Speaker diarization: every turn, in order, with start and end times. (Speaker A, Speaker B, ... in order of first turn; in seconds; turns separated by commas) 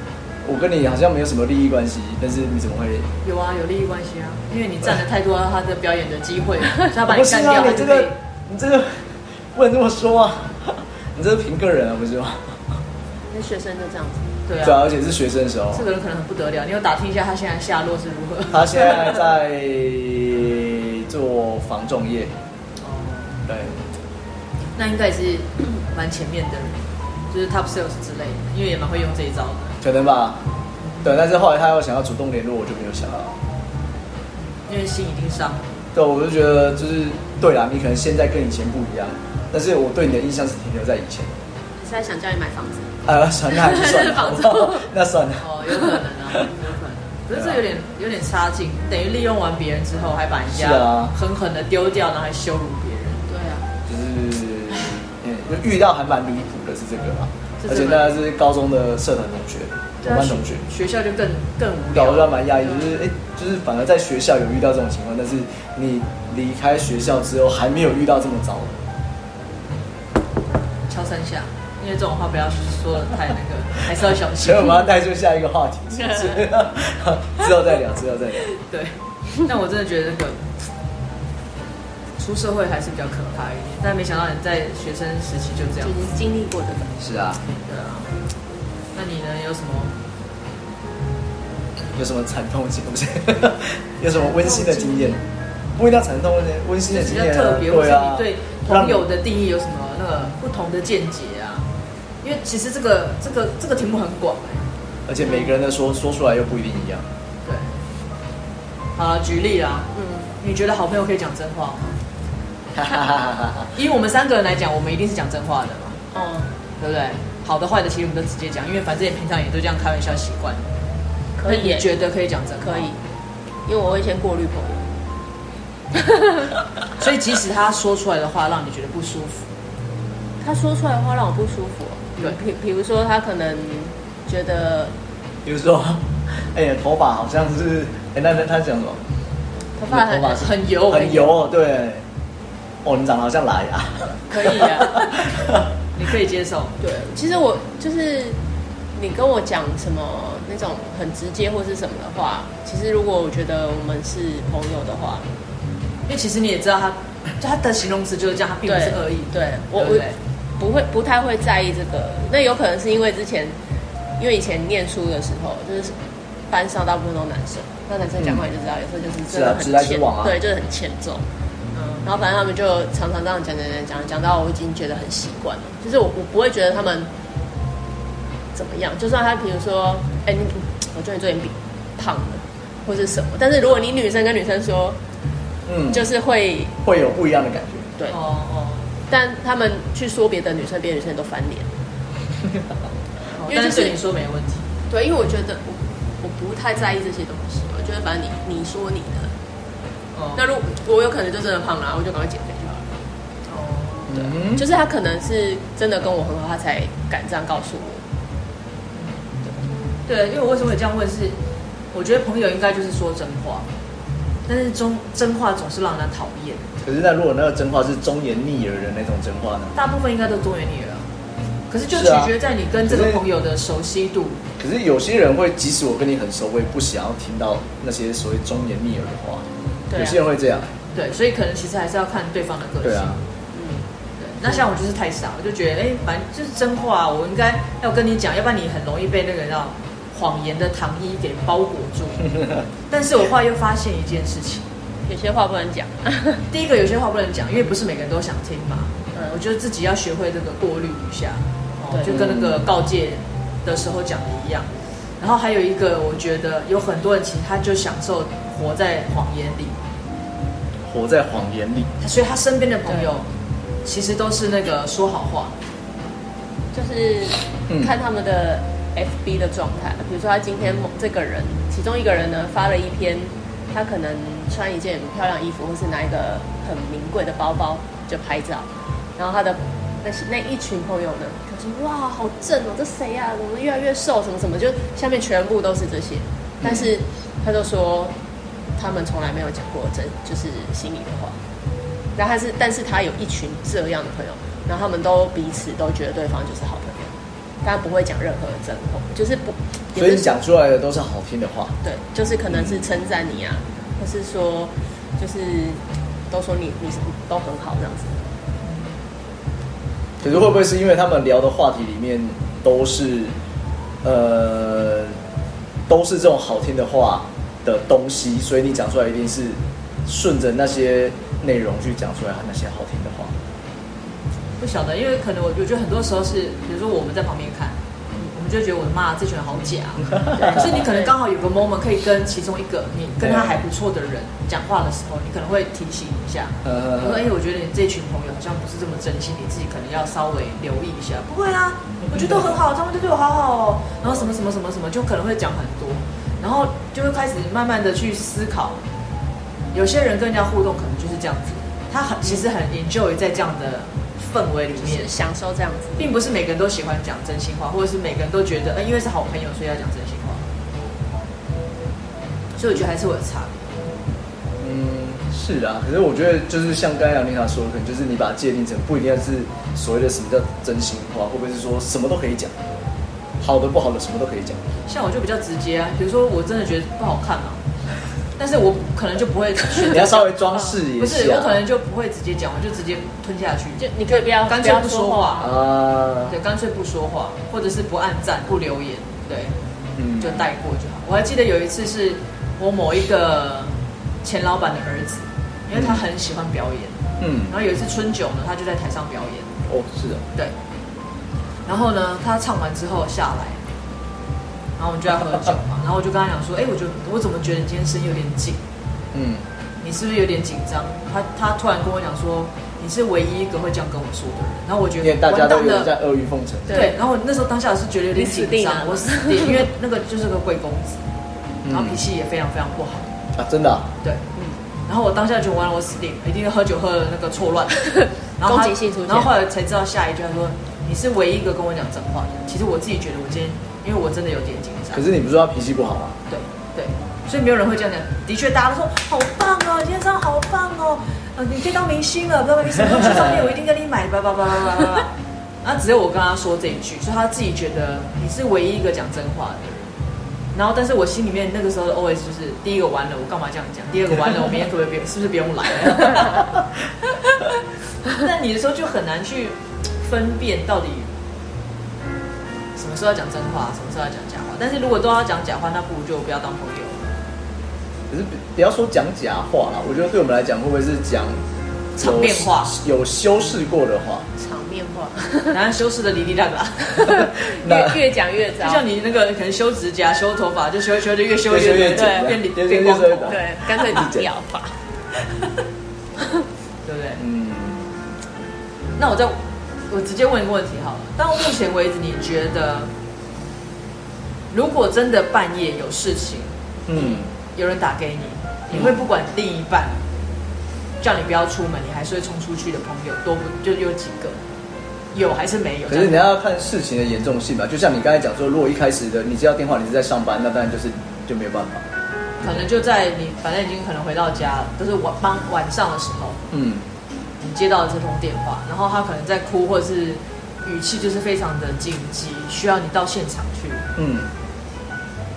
Speaker A: 0.4-3.1, Speaker B: 3.2-8.1, Speaker A: 7.1-12.8, Speaker C: 13.3-14.3, Speaker B: 14.5-14.9, Speaker A: 14.6-15.9, Speaker B: 15.7-19.2, Speaker A: 18.5-22.4, Speaker B: 22.8-23.4, Speaker A: 23.5-23.8, Speaker B: 24.8-29.8, Speaker A: 29.8-30.4, Speaker B: 30.8-31.2, Speaker A: 31.0-33.4, Speaker B: 34.4-35.6, Speaker A: 35.9-41.3, Speaker C: 41.8-42.9, Speaker A: 43.0-46.5, Speaker C: 43.5-44.9, Speaker B: 45.4-53.3, Speaker A: 47.3-47.6, Speaker A: 50.5-51.1, Speaker C: 53.3-53.6, Speaker A: 53.9-60.6, Speaker B: 57.6-58.2, Speaker B: 60.0-62.9, Speaker A: 61.9-68.8, Speaker B: 70.9-74.9, Speaker A: 74.4-78.5, Speaker B: 78.4-80.5, Speaker B: 82.2-86.0, Speaker C: 85.8-86.9, Speaker A: 87.0-87.4, Speaker B: 87.7-88.1, Speaker B: 88.9-89.9, Speaker A: 92.0-95.2, Speaker C: 94.1-95.2, Speaker A: 95.8-99.1, Speaker B: 96.9-101.7, Speaker B: 102.2-104.7, Speaker A: 105.1-107.0, Speaker B: 105.2-105.5, Speaker B: 107.5-107.8, Speaker B: 109.0-112.0, Speaker C: 109.9-110.3, Speaker A: 112.8-113.7, Speaker B: 113.7-116.0, Speaker C: 116.1-116.5, Speaker B: 116.8-120.7, Speaker C: 121.4-121.9, Speaker B: 121.5-122.9, Speaker C: 122.6-123.0, Speaker C: 123.7-124.8, Speaker B: 127.0-129.5, Speaker C: 130.4-134.9, Speaker A: 135.4-139.0, Speaker C: 139.8-140.5, Speaker A: 139.9-142.1, Speaker B: 140.2-141.3, Speaker A: 142.8-145.7, Speaker C: 144.3-144.9, Speaker B: 144.3-145.3, Speaker B: 145.9-146.8, Speaker C: 146.8-148.4, Speaker C: 148.9-155.3, Speaker B: 156.1-160.2, Speaker C: 158.6-163.6, Speaker C: 164.2-166.0, Speaker C: 166.5-171.3, Speaker A: 169.3-170.4, Speaker C: 171.9-177.1, Speaker C: 178.5-185.0, Speaker A: 185.7-186.1, Speaker C: 185.9-186.7, Speaker A: 186.8-187.9, Speaker B: 188.1-188.9, Speaker C: 189.1-191.7, Speaker B: 193.3-194.7, Speaker C: 193.4-194.0, Speaker C: 194.9-199.3, Speaker B: 200.2-200.4, Speaker C: 200.3-202.9, Speaker B: 203.5-204.3, Speaker A: 204.1-204.7, Speaker C: 204.5-208.0, Speaker B: 208.9-209.2, Speaker B: 210.1-211.4, Speaker B: 211.9-213.7, Speaker B: 214.5-216.7, Speaker A: 216.8-219.7, Speaker B: 219.8-221.1, Speaker B: 221.7-224.4, Speaker A: 221.9-223.2, Speaker A: 224.6-230.7, Speaker C: 229.9-230.2, Speaker B: 230.9-233.2, Speaker A: 232.8-233.2, Speaker C: 233.5-233.9, Speaker B: 234.2-242.3, Speaker B: 242.9-244.7, Speaker C: 245.1-246.4, Speaker B: 246.5-254.7, Speaker A: 252.1-252.6, Speaker B: 255.2-259.8, Speaker A: 260.9-261.9, Speaker B: 262.0-263.3, Speaker B: 263.8-265.6, Speaker C: 266.7-288.2, Speaker A: 286.6-286.9, Speaker C: 288.8-291.4, Speaker C: 292.2-300.3, Speaker A: 299.9-301.8, Speaker C: 301.8-308.3, Speaker A: 302.5-302.8, Speaker A: 310.2-313.3, Speaker A: 314.0-315.2, Speaker A: 315.9-323.3, Speaker B: 324.6-348.8, Speaker C: 330.4-331.1, Speaker A: 333.2-333.6, Speaker A: 336.6-337.3, Speaker A: 342.1-342.5, Speaker B: 349.7-355.1, Speaker C: 354.8-356.1, Speaker B: 356.0-360.4, Speaker B: 362.6-363.9, Speaker A: 364.6-372.6, Speaker A: 373.4-374.6, Speaker B: 374.9-377.7, Speaker B: 378.4-383.9, Speaker A: 379.8-381.6, Speaker C: 383.8-385.5, Speaker B: 384.4-385.5, Speaker A: 385.4-386.4, Speaker B: 386.3-389.6, Speaker A: 390.0-390.5, Speaker B: 390.2-399.6, Speaker A: 395.7-396.0, Speaker A: 397.2-397.5, Speaker A: 399.7-400.2, Speaker B: 401.7-403.6, Speaker B: 404.8-408.6, Speaker A: 409.1-409.5, Speaker B: 409.8-415.9, Speaker A: 415.0-416.9, Speaker C: 416.7-417.0, Speaker B: 416.7-421.0, Speaker C: 418.1-419.6, Speaker A: 421.6-422.0, Speaker B: 421.7-423.2, Speaker A: 423.4-423.9, Speaker B: 424.9-435.0, Speaker C: 428.4-429.3, Speaker A: 434.9-436.2, Speaker B: 436.3-449.9, Speaker B: 450.5-461.1, Speaker B: 462.8-467.2, Speaker A: 468.1-471.4, Speaker B: 472.0-472.8, Speaker A: 472.0-474.3, Speaker C: 474.4-475.6, Speaker B: 475.5-477.3, Speaker C: 477.0-478.8, Speaker A: 477.5-478.0, Speaker B: 478.6-483.4, Speaker A: 481.5-484.3, Speaker C: 481.9-482.4, Speaker C: 483.3-484.8, Speaker B: 486.9-487.2, Speaker A: 487.2-487.9, Speaker B: 489.0-492.9, Speaker B: 494.5-500.0, Speaker A: 496.9-497.3, Speaker A: 498.7-499.0, Speaker B: 501.0-504.4, Speaker B: 505.1-506.3, Speaker A: 505.9-511.9, Speaker B: 512.4-516.4, Speaker A: 516.5-516.9, Speaker B: 517.4-523.9, Speaker A: 524.0-524.3